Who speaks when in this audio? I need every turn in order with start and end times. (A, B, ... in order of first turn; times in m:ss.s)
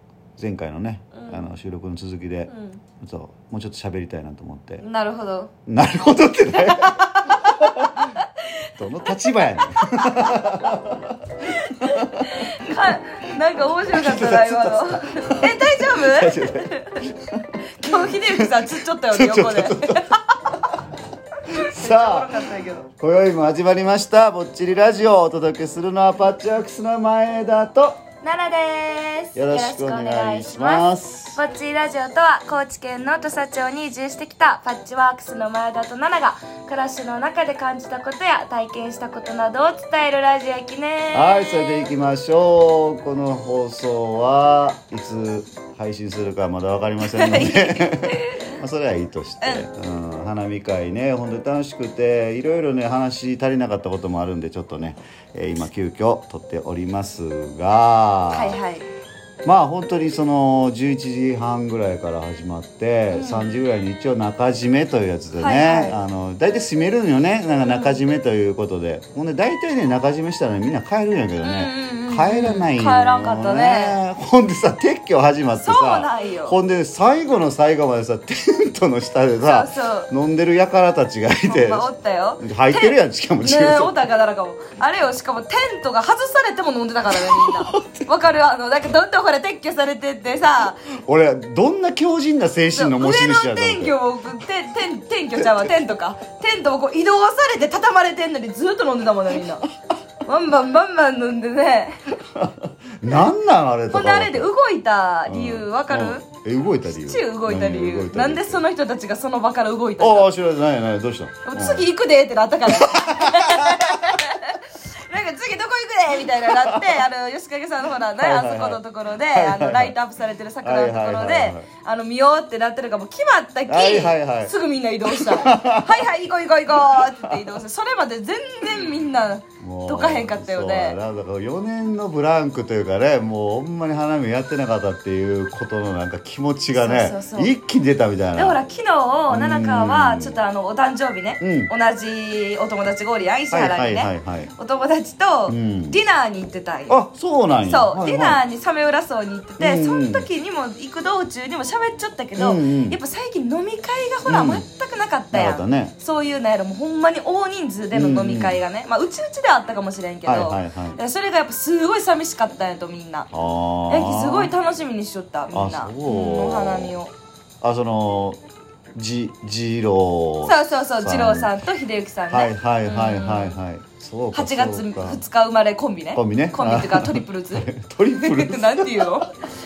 0:00.4-0:04.8 A
0:01.1-0:01.4 B
0:02.5-0:02.8 B
0:04.8-0:05.5 B
0:05.6-0:08.0 A
0:06.6-0:08.3 B
0:08.7-0:12.8 A
0:09.0-0:10.8 B
0:11.6-0:17.0 B
0:13.9-0:17.4 A
0:17.8-0:20.0 B
0:18.3-0:18.6 A
0:19.1-0:20.0 A
0:21.5-0:22.9 B
0:21.6-0:22.3 A
0:23.0-0:28.0 A
0:28.2-0:41.9 B
0:29.3-0:31.4 A
0:41.1-0:58.6 A
0:47.0-0:48.5 B
0:58.3-0:58.8 B
0:59.4-1:21.9 A
1:03.1-1:03.6 B
1:05.3-1:06.0 B
1:07.7-1:07.9 B
1:11.4-1:14.0 B
1:15.6-1:16.6 B
1:19.4-1:20.1 B
1:21.4-1:30.8 B
1:22.4-1:23.9 A
1:27.1-1:28.1 A
1:31.0-1:34.0 A
1:32.7-1:39.6 B
1:35.4-1:35.8 A
1:40.2-1:42.0 B
1:42.2-1:44.5 A
1:43.9-1:46.2 B
1:45.3-1:48.6 A
1:46.9-1:50.3 B
1:50.0-1:51.9 A
1:51.4-2:11.0 B
1:52.7-1:54.2 A
1:56.3-1:56.9 A
1:58.2-1:59.9 A
2:00.6-2:01.7 A
2:03.7-2:04.5 A
2:05.1-2:06.1 A
2:06.9-2:07.3 A
2:09.6-2:18.6 A
2:16.7-2:17.5 B
2:18.3-2:27.0 B
2:19.3-2:20.4 A
2:21.4-2:21.7 A
2:23.5-2:24.5 A
2:25.5-2:26.0 A
2:26.9-2:28.4 A
2:27.6-2:43.3 B
2:29.6-2:30.2 A
2:32.4-2:33.0 A
2:34.2-2:34.6 A
2:35.3-2:35.9 A
2:37.9-2:38.6 A
2:40.2-2:41.0 A
2:43.3-2:44.5 A
2:43.9-2:47.1 B
2:45.5-2:47.0 A
2:47.6-2:48.4 A
2:48.9-2:51.5 A
2:50.4-2:53.6 B
2:52.3-2:55.2 A
2:54.3-2:59.4 B
2:56.1-2:59.0 A